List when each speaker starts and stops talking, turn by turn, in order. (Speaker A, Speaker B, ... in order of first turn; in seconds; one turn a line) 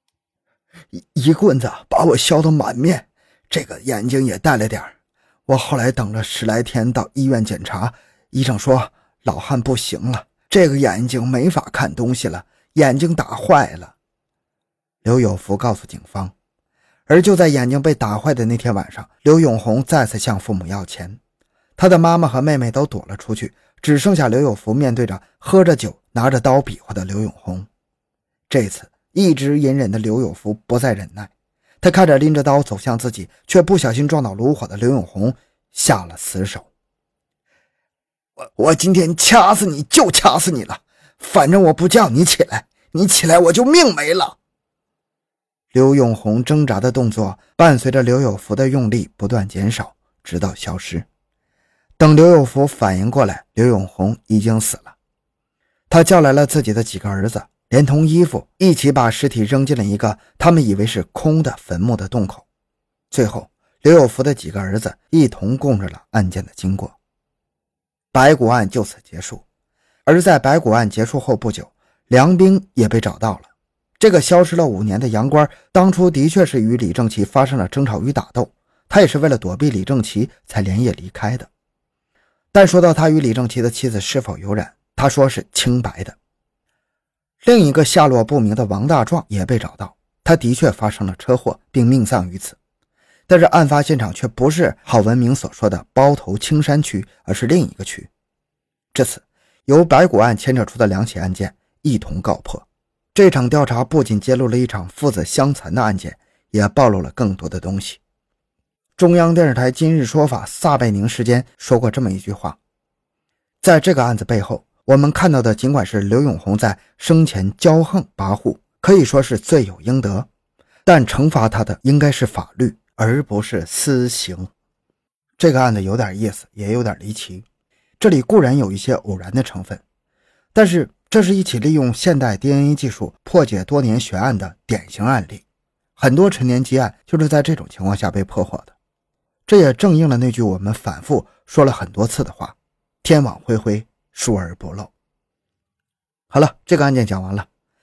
Speaker A: 0.9-5.0
Speaker A: 5.5-13.9
Speaker A: 15.0-16.3
Speaker A: 17.1-21.2
Speaker A: 21.8-27.7
Speaker A: 28.5-36.7
Speaker A: 38.5-44.4
Speaker A: 45.7-51.1
Speaker A: 52.0-55.0
Speaker A: 55.9-62.5
Speaker A: 63.1-67.0
Speaker A: 68.1-69.4
Speaker A: 70.1-81.5
Speaker A: 82.5-86.2
Speaker A: 87.4-92.6
Speaker A: 93.3-98.1
Speaker A: 98.9-108.0
Speaker A: 109.0-112.6
Speaker A: 113.6-120.3
Speaker A: 120.9-124.5
Speaker A: 125.4-127.5
Speaker A: 128.0-129.8
Speaker A: 130.5-135.4
Speaker A: 136.0-138.7
Speaker A: 139.5-144.9
Speaker A: 146.3-147.5